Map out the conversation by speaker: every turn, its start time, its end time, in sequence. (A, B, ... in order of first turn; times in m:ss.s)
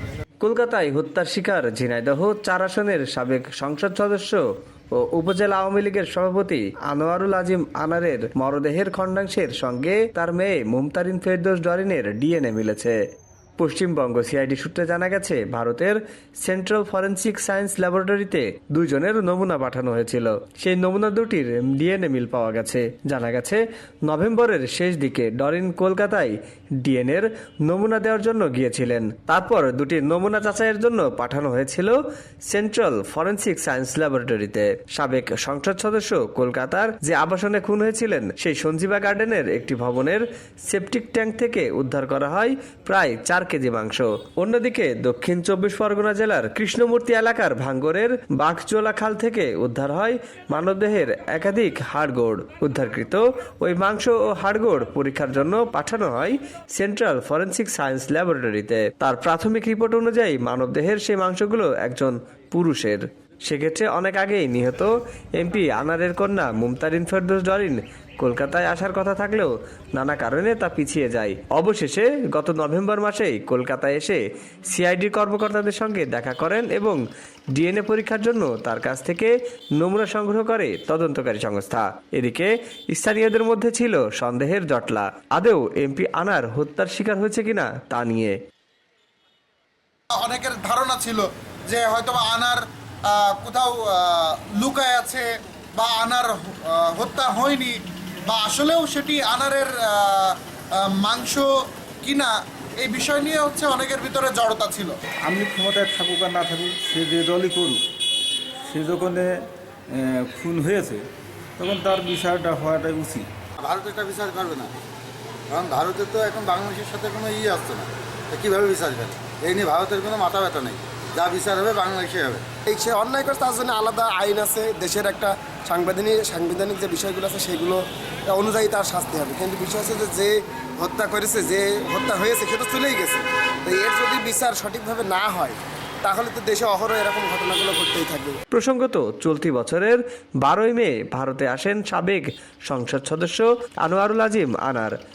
0:00.4-0:13.0 A
0:13.6-1:17.0 A
1:17.5-1:28.4 A
1:30.1-1:41.5 B
1:42.0-1:44.9 B
1:45.2-1:47.8 C
1:48.6-1:53.3 C
1:53.6-1:54.7 D
1:55.5-2:02.5 D
2:02.7-2:18.4 E
2:18.5-2:25.0 A